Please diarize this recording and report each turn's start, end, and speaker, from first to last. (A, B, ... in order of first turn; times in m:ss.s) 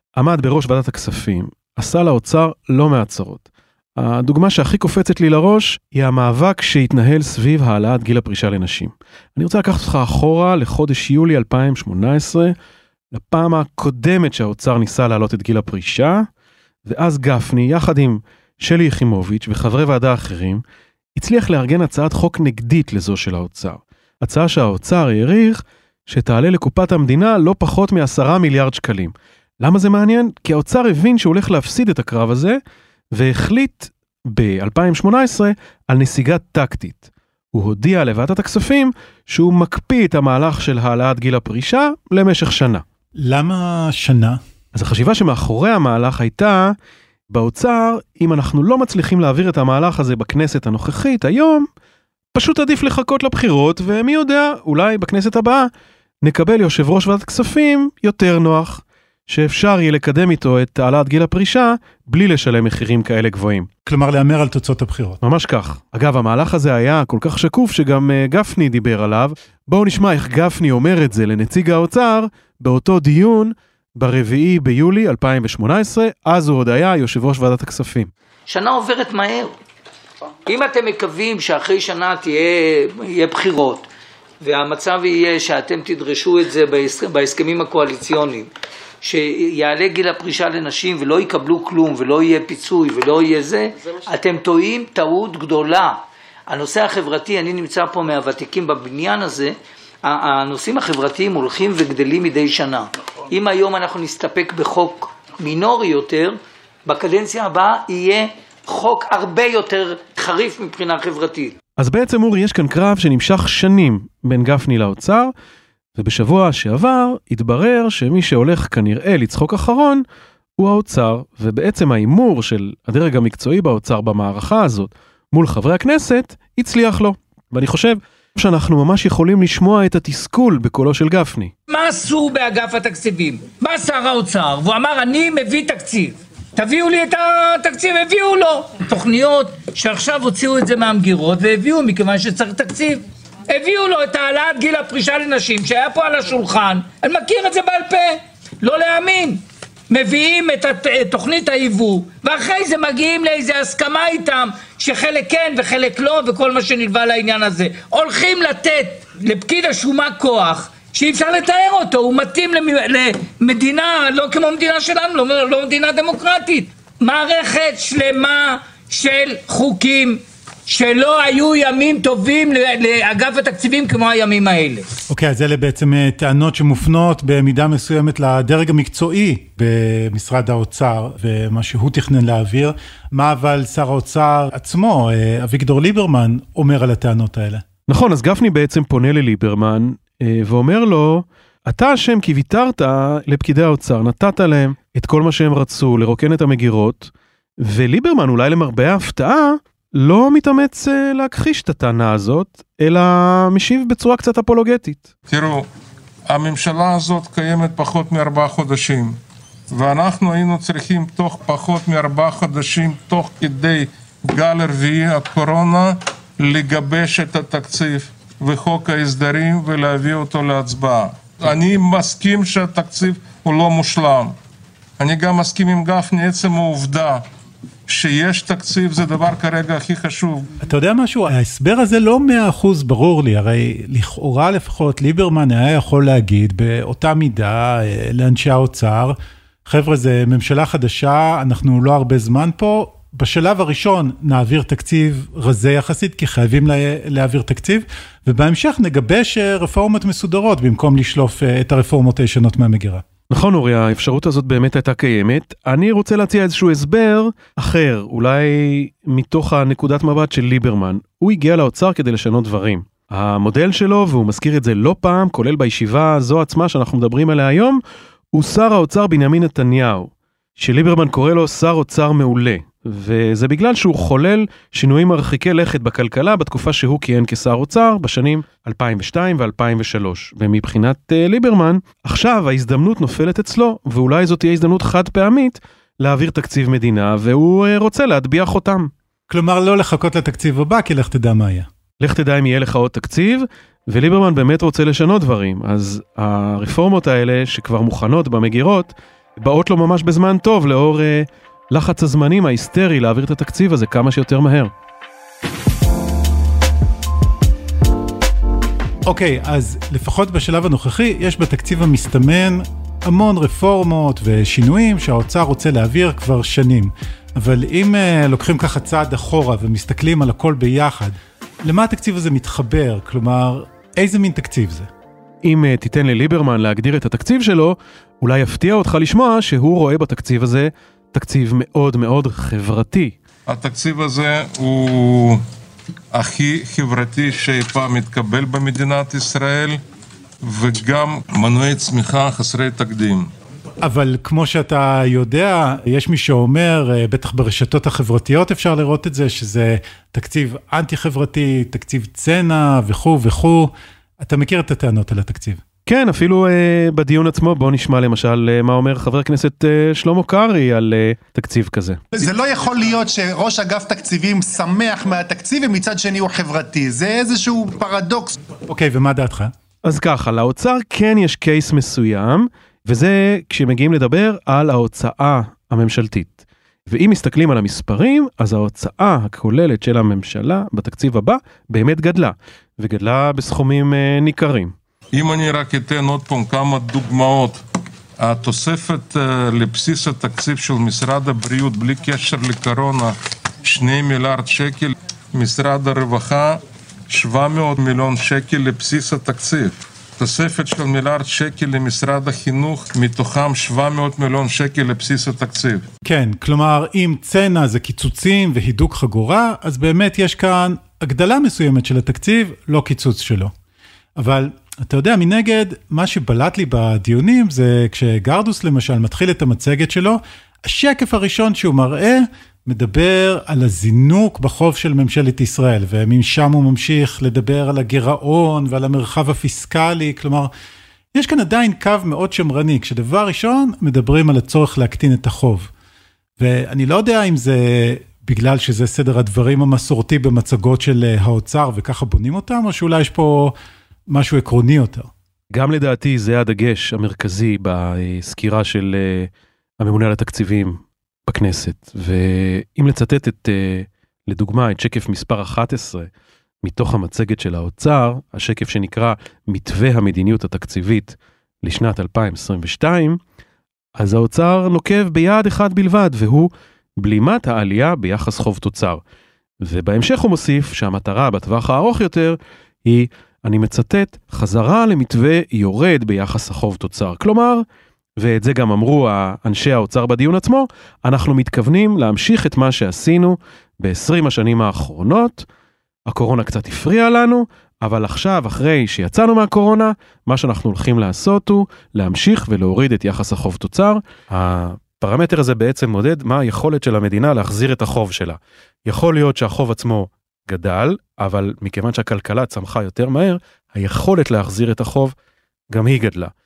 0:00.2-0:12.6 A
0:13.1-0:16.3 A
0:16.9-0:20.6 A
0:21.2-0:32.6 A
0:33.1-0:42.8 A
0:43.2-0:44.4 B
0:44.7-0:46.8 A
0:47.3-0:51.7 A
0:52.3-0:55.7 A
0:56.2-1:03.7 A
1:03.9-1:05.2 B
1:05.2-1:18.1 A
1:18.5-1:19.5 C
1:20.5-1:23.9 C
1:24.4-1:28.5 C
1:29.0-1:51.6 C
1:51.8-1:55.3 A
1:56.0-2:00.0 A
2:00.6-2:11.5 A
2:11.7-2:54.9 C
2:55.1-3:07.6 B
3:07.9-3:25.1 A
3:25.3-3:25.7 D
3:26.3-3:29.2 D
3:29.7-3:44.4 D
3:45.0-3:47.2 D
3:47.9-3:50.5 D
3:50.6-4:13.0 B
4:13.3-4:27.8 A
4:28.3-4:48.9 A
4:49.3-4:51.7 B
4:52.0-5:04.7 A
5:09.1-5:24.9 B
5:25.4-5:33.2 A
5:33.5-5:35.4 D
5:36.1-5:39.8 D
5:40.4-5:43.3 D
5:43.8-5:55.6 B
5:55.9-6:02.0 A
6:02.1-6:08.4 E
6:08.7-6:09.5 B
6:09.8-6:24.7 A
6:25.1-6:27.6 D
6:28.2-6:45.8 D
6:46.0-6:53.5 B
6:54.2-7:10.5 B
7:11.1-7:15.7 B
7:16.4-7:23.6 B
7:24.1-7:25.1 B
7:25.5-7:36.1 A
7:36.6-7:43.2 A
7:44.0-7:49.0 A
7:49.6-7:57.6 A
7:58.2-8:05.5 A
8:06.1-8:25.1 A
8:25.7-8:26.3 A